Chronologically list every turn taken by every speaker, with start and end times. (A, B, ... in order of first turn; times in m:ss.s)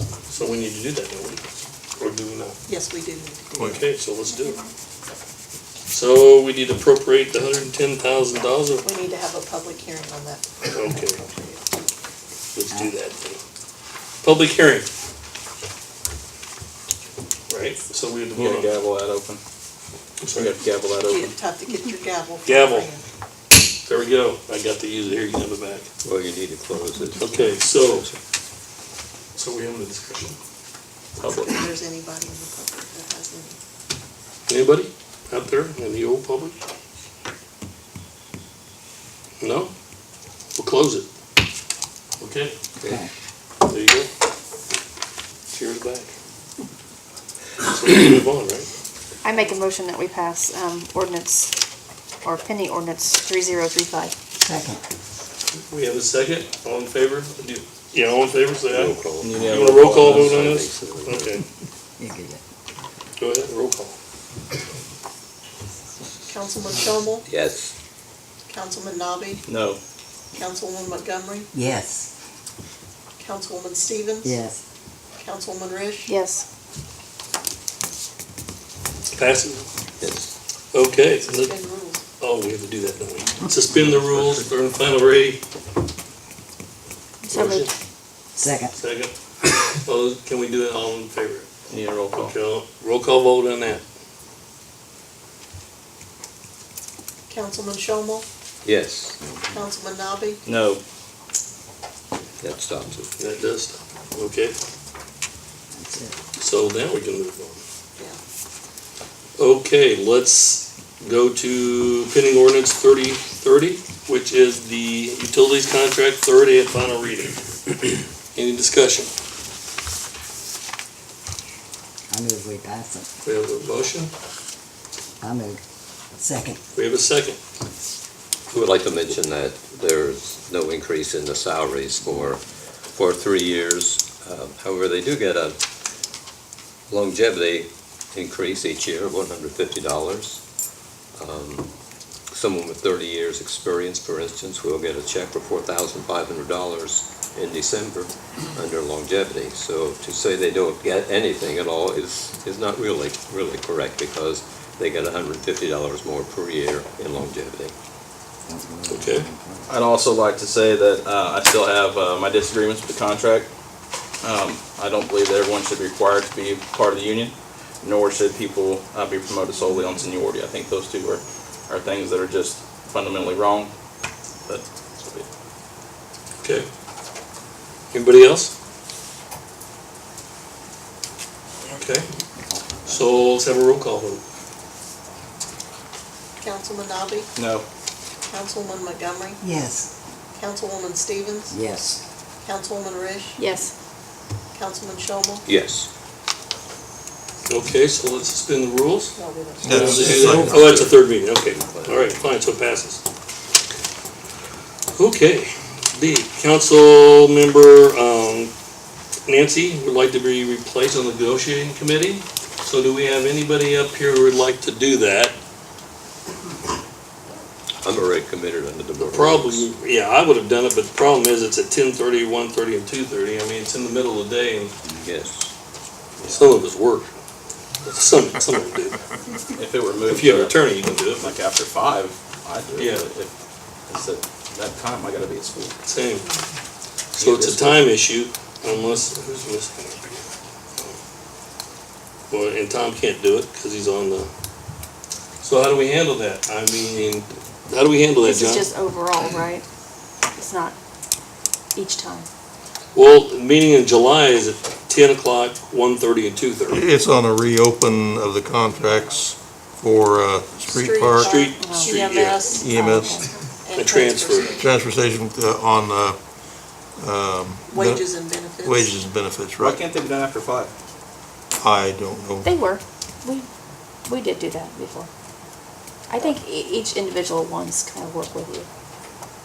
0:00.3-0:01.4 A
0:02.0-0:02.6 A
0:02.7-0:03.8 B
0:03.6-0:03.8 C
0:03.7-0:04.6 A
0:04.3-0:04.7 D
0:05.9-0:08.8 A
0:08.8-0:11.7 B
0:10.7-0:11.2 A
0:12.5-0:13.4 A
0:14.2-0:14.9 A
0:17.5-0:18.7 A
0:18.3-0:19.4 E
0:20.2-0:20.5 A
0:20.3-0:21.3 E
0:21.0-0:23.0 B
0:22.4-0:22.9 A
0:23.8-0:25.9 A
0:26.0-0:28.2 F
0:27.2-0:28.1 A
0:29.3-0:30.4 A
0:31.2-0:31.6 E
0:31.3-0:33.6 B
0:34.5-0:36.6 A
0:39.4-0:39.7 A
0:40.6-0:41.1 A
0:42.2-0:42.5 A
0:43.6-0:44.1 A
0:45.5-0:46.1 A
0:47.6-0:48.7 A
0:49.2-0:51.5 D
0:52.2-0:54.1 D
0:54.4-0:54.8 G
0:55.5-1:01.4 A
0:58.7-1:01.4 F
0:59.2-1:00.4 E
1:02.0-1:02.4 G
1:03.2-1:03.9 A
1:06.3-1:07.3 B
1:07.2-1:07.7 F
1:08.5-1:09.4 B
1:09.5-1:09.8 E
1:10.3-1:11.5 B
1:11.5-1:12.1 G
1:13.2-1:14.4 B
1:14.2-1:14.6 G
1:15.2-1:16.1 B
1:16.1-1:16.4 D
1:19.1-1:19.7 A
1:20.0-1:20.3 F
1:20.7-1:21.5 A
1:21.2-1:22.0 B
1:22.2-1:25.4 A
1:23.5-1:24.4 E
1:27.2-1:27.7 D
1:27.3-1:27.7 A
1:28.4-1:28.7 G
1:28.7-1:31.5 A
1:31.7-1:32.3 E
1:32.1-1:33.8 A
1:37.3-1:38.2 B
1:38.6-1:39.2 F
1:39.5-1:40.4 B
1:40.4-1:40.8 E
1:42.4-1:43.1 F
1:43.2-1:44.5 A
1:45.7-1:46.1 G
1:46.4-1:47.6 A
1:49.4-1:59.1 A
2:02.1-2:03.1 G
2:03.2-2:04.1 A
2:05.2-2:05.6 G
2:06.2-2:06.6 G
2:06.7-2:07.4 A
2:08.5-2:15.6 F
2:16.9-2:20.4 F
2:21.2-2:21.7 F
2:22.3-2:37.7 F
2:38.4-2:39.7 G
2:38.9-2:39.3 A
2:39.7-2:43.5 E
2:44.2-2:53.7 E
2:54.4-2:55.2 E
2:56.4-2:56.7 A
2:57.9-2:58.5 A
3:01.7-3:02.1 A
3:02.5-3:03.1 G
3:02.8-3:04.2 A
3:06.4-3:07.3 B
3:07.4-3:07.6 E
3:08.2-3:09.4 B
3:09.4-3:09.9 G
3:10.3-3:11.6 B
3:11.5-3:12.0 G
3:12.4-3:13.4 B
3:13.4-3:13.7 D
3:14.5-3:15.4 B
3:15.4-3:15.9 F
3:17.5-3:23.0 A
3:19.1-3:20.5 B
3:19.6-3:20.6 C
3:20.5-3:22.2 F
3:24.9-3:28.5 A
3:29.3-3:35.3 A
3:37.8-3:39.7 F
3:39.0-3:44.7 A
3:44.9-3:45.5 F
3:46.2-3:47.1 A
3:47.8-3:49.0 A
3:49.5-3:50.6 E
3:50.0-3:51.4 A
3:51.2-3:53.3 E
3:52.8-3:53.0 A
3:53.8-3:55.8 E
3:55.8-3:56.3 A
3:57.2-3:57.9 E
3:57.2-4:00.2 A
4:02.3-4:04.3 A
4:05.4-4:08.7 A
4:08.2-4:09.6 D
4:10.3-4:10.7 D
4:11.7-4:12.3 D
4:12.9-4:16.8 A
4:16.7-4:21.4 C
4:20.6-4:22.9 B
4:21.2-4:22.5 A
4:21.5-4:22.0 D
4:22.5-4:23.3 C
4:22.6-4:23.6 D
4:23.6-4:24.7 B
4:23.7-4:24.6 A
4:24.6-4:29.8 C
4:27.7-4:28.9 B
4:29.6-4:30.7 E
4:31.6-4:32.5 C
4:32.4-4:33.5 D
4:34.0-4:35.1 D
4:36.1-4:38.7 D